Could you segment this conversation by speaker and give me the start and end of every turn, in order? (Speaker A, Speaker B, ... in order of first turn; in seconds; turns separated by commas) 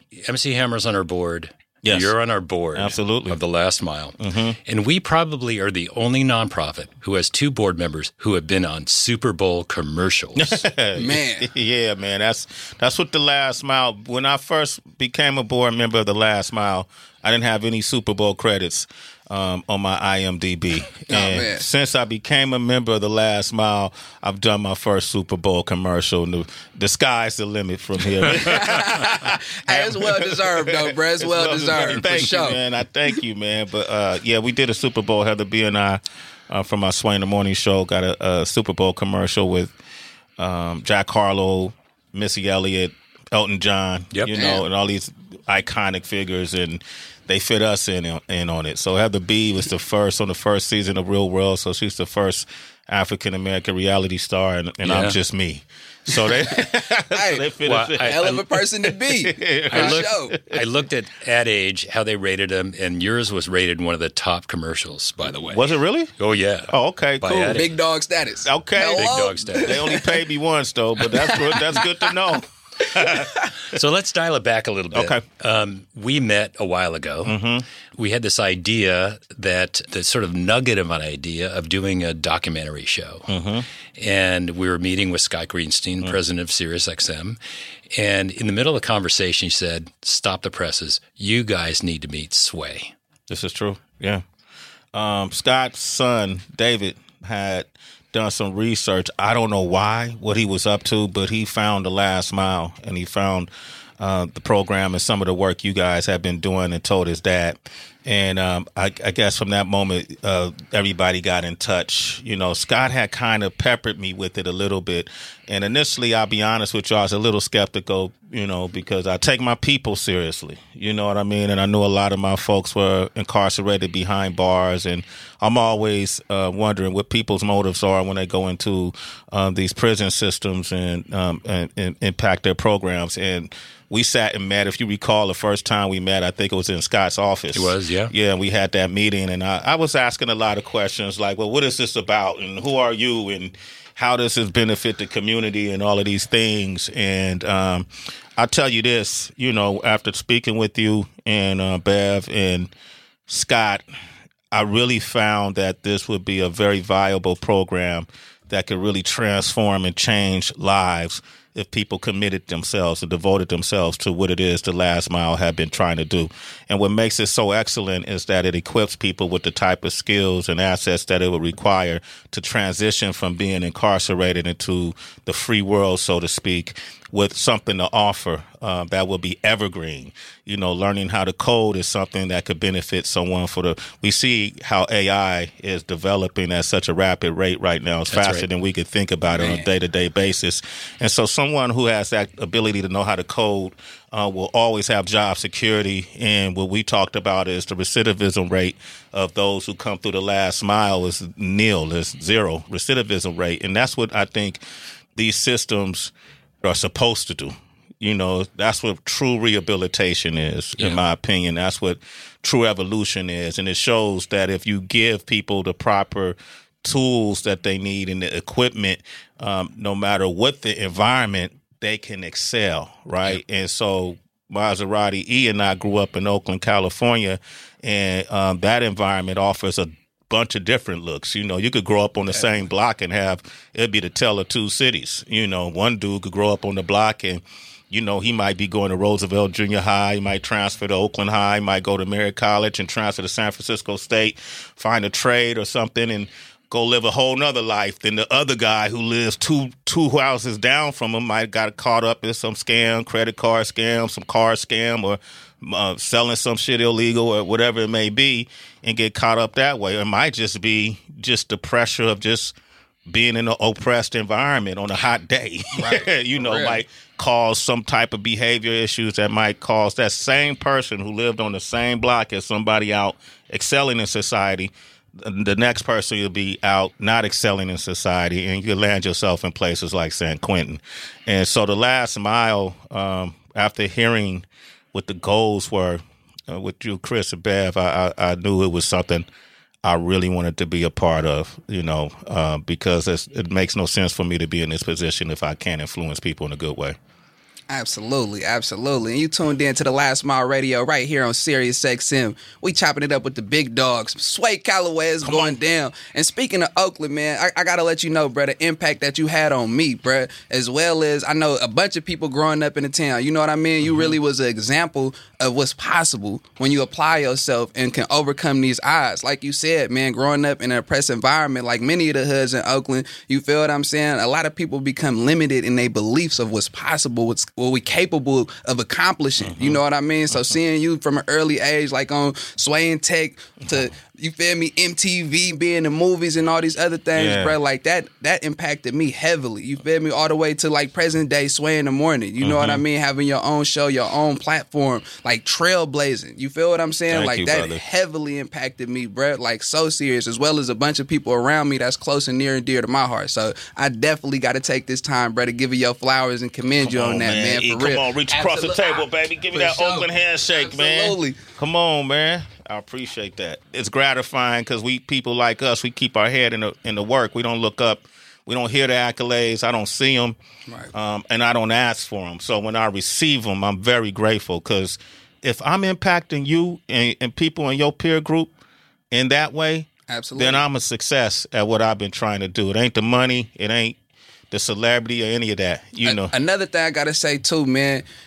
Speaker A: 0.1-10.6, Speaker B: 1.8-2.1, Speaker B: 2.8-3.4, Speaker B: 4.2-4.6, Speaker B: 10.3-39.7, Speaker C: 11.0-11.5, Speaker C: 21.1-21.7, Speaker C: 28.4-32.6, Speaker B: 40.4-60.6, Speaker C: 44.3-44.6, Speaker A: 54.8-55.2, Speaker C: 56.5-57.5, Speaker A: 57.6-58.5, Speaker C: 58.0-60.4, Speaker A: 59.7-67.7, Speaker B: 65.5-66.1, Speaker B: 66.7-67.6, Speaker C: 67.5-70.1, Speaker B: 68.4-73.8, Speaker A: 68.9-69.8, Speaker A: 73.6-77.4, Speaker B: 74.9-75.2, Speaker B: 77.2-77.7, Speaker A: 78.0-83.3, Speaker B: 83.3-83.7, Speaker A: 84.0-87.4, Speaker A: 87.9-92.9, Speaker B: 93.3-94.2, Speaker B: 94.9-152.7, Speaker A: 137.5-138.1, Speaker B: 153.3-153.8, Speaker B: 154.5-204.6, Speaker A: 188.1-188.4, Speaker C: 189.3-189.6, Speaker B: 205.2-262.6, Speaker B: 263.1-289.3, Speaker C: 265.8-266.8, Speaker B: 289.8-297.0, Speaker C: 297.7-361.4, Speaker B: 305.2-305.6, Speaker B: 313.9-314.1, Speaker B: 329.4-329.8, Speaker B: 337.1-337.6, Speaker B: 342.4-342.8, Speaker B: 347.1-347.8, Speaker B: 356.8-370.4, Speaker C: 370.7-370.9, Speaker B: 370.9-378.5, Speaker B: 379.1-384.0, Speaker C: 380.1-380.6, Speaker B: 384.5-386.3, Speaker C: 386.0-388.1